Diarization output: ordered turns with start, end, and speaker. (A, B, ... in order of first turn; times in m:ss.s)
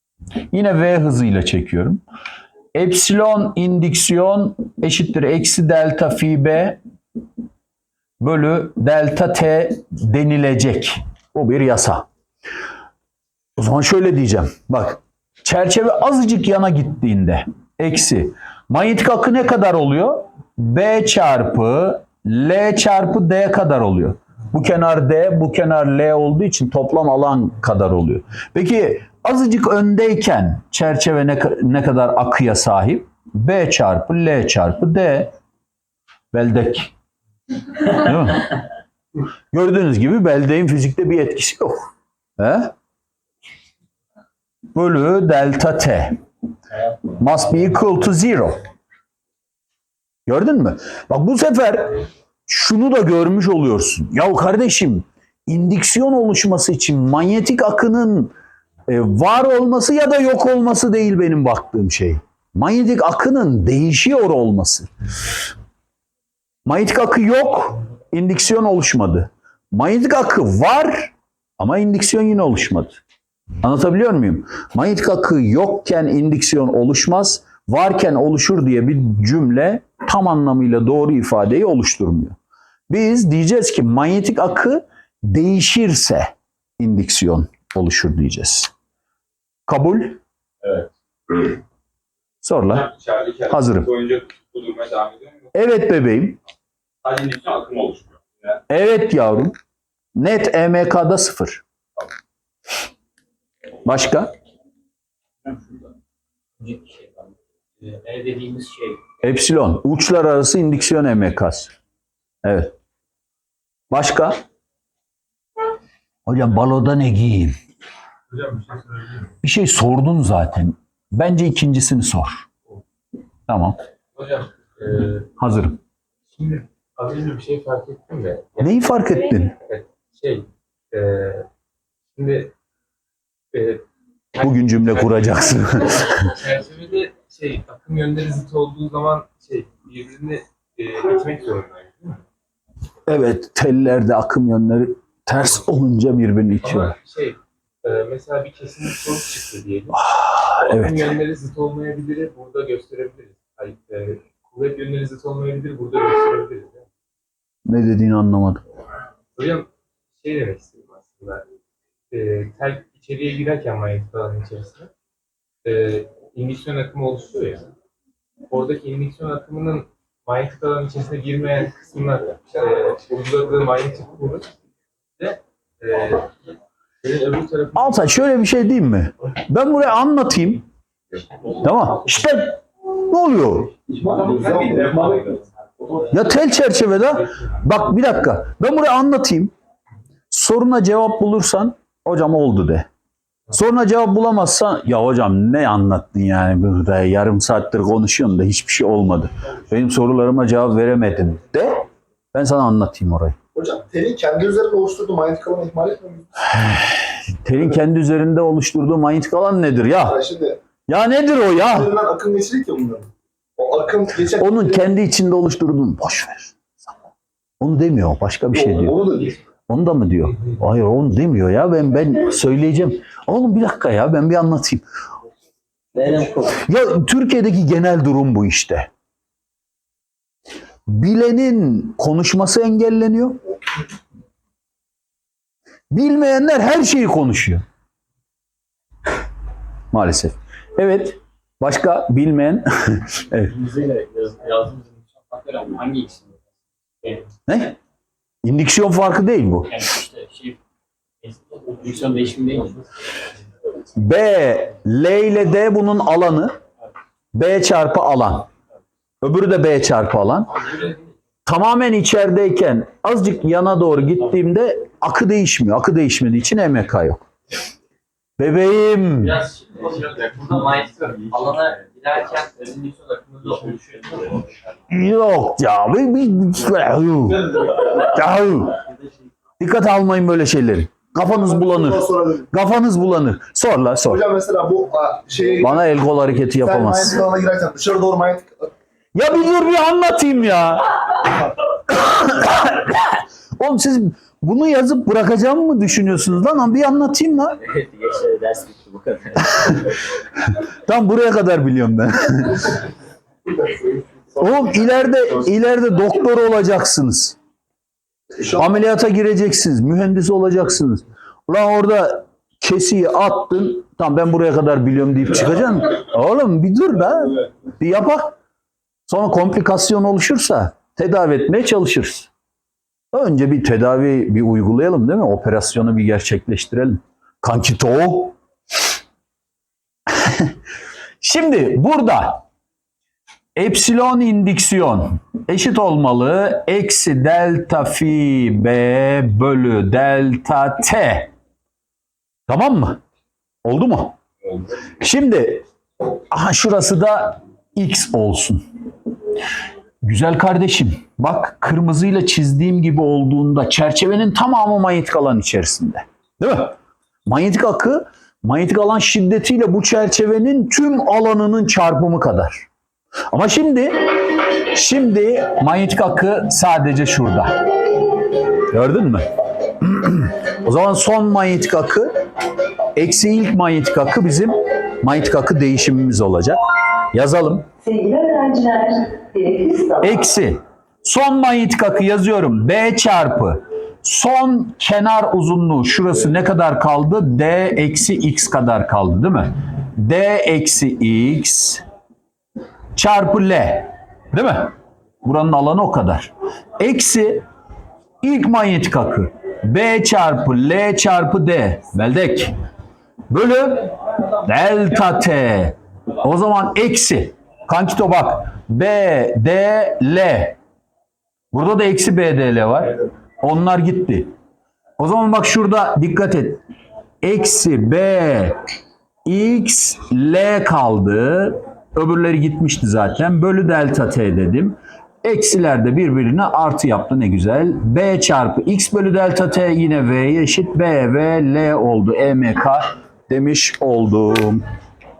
0:00.5-0:02.0 A
0:02.7-0:06.8 A
0:08.2-0:12.1 A
0:13.6-0:35.3 A
0:36.3-0:36.9 A
0:37.9-0:38.5 A
0:39.5-0:42.7 A
0:44.8-0:46.2 A
0:47.2-0:48.6 A
0:50.3-0:58.3 A
0:58.9-1:04.9 A
1:06.7-1:13.0 A
1:13.6-1:22.4 A
1:22.9-1:28.7 A
1:29.7-1:30.2 A
1:32.4-1:32.9 A
1:32.9-1:35.4 B
1:33.5-1:33.9 A
1:35.5-1:36.4 A
1:37.0-1:38.5 B
1:38.7-1:39.6 A
1:40.2-1:41.6 A
1:43.8-1:44.3 A
1:46.6-1:47.0 C
1:47.8-1:49.0 C
1:49.2-1:51.7 A
1:52.4-1:52.7 A
1:53.9-1:54.4 A
1:56.3-1:57.6 A
1:58.3-1:59.2 D
1:59.4-2:02.5 A
2:03.5-2:03.8 A
2:04.2-2:05.3 D
2:05.4-2:05.8 A
2:06.3-2:11.5 D
2:08.6-2:09.5 A
2:12.1-2:12.5 D
2:13.5-2:22.2 D
2:14.4-2:16.2 A
2:23.1-2:27.0 A
2:26.6-2:36.9 D
2:30.0-2:31.1 A
2:37.7-2:38.6 A
2:39.4-2:41.4 D
2:42.1-2:44.9 D
2:45.6-2:47.7 D
2:48.5-2:54.5 D
2:55.2-2:56.4 D
2:57.0-2:58.2 D
2:57.8-3:00.6 A
3:01.6-3:03.7 A
3:04.0-3:05.2 E
3:04.0-3:05.4 D
3:06.1-3:09.5 A
3:10.3-3:12.9 A
3:13.5-3:21.8 A
3:22.3-3:23.4 A
3:23.6-3:26.3 E
3:26.5-3:30.2 A
3:30.0-3:30.6 E
3:30.9-3:31.9 A
3:31.6-3:34.9 E
3:34.4-3:36.6 A
3:37.6-3:39.0 A
3:38.5-3:39.4 E
3:39.7-3:44.8 A
3:45.9-3:46.6 C
3:46.6-3:48.9 A
3:50.9-3:53.4 A
3:55.9-3:57.6 A
3:59.9-4:03.5 A
4:03.5-4:06.3 C
4:07.5-4:07.7 A
4:08.4-4:09.8 A
4:09.8-4:10.6 C
4:11.2-4:12.8 C
4:14.0-4:16.6 A
4:17.3-4:18.5 A
4:19.2-4:20.6 A
4:21.5-4:27.2 A
4:28.4-4:29.4 A
4:29.6-4:34.4 C
4:34.9-4:38.8 A
4:39.6-4:44.2 A
4:41.2-4:42.5 E
4:44.0-4:45.9 E
4:45.6-4:47.2 A
4:46.5-4:48.7 E
4:49.2-4:50.9 A
4:52.0-4:57.6 A
4:57.6-4:59.8 C
5:00.9-5:02.7 A
5:03.5-5:04.8 E
5:04.4-5:07.4 A
5:08.4-5:18.4 A
5:19.1-5:22.3 A
5:23.1-5:28.4 A
5:30.1-5:30.5 A
5:31.2-5:32.4 A
5:33.6-5:41.3 A
5:42.5-5:43.0 A
5:43.6-5:44.2 A
5:45.0-5:45.7 A
5:46.3-5:48.6 A
5:50.0-5:56.8 A
5:57.3-6:02.7 A
6:03.3-6:07.6 A
6:08.7-6:09.3 A
6:09.8-6:12.2 A
6:13.0-6:16.6 A
6:17.1-6:17.7 A
6:17.8-6:20.2 F
6:20.0-6:31.8 A
6:33.0-6:37.4 A
6:38.2-6:42.6 A
6:43.3-6:43.9 A
6:44.4-6:50.6 A
6:51.5-6:54.3 A
6:55.0-6:56.6 A
6:57.2-6:58.6 A
6:59.2-7:14.6 A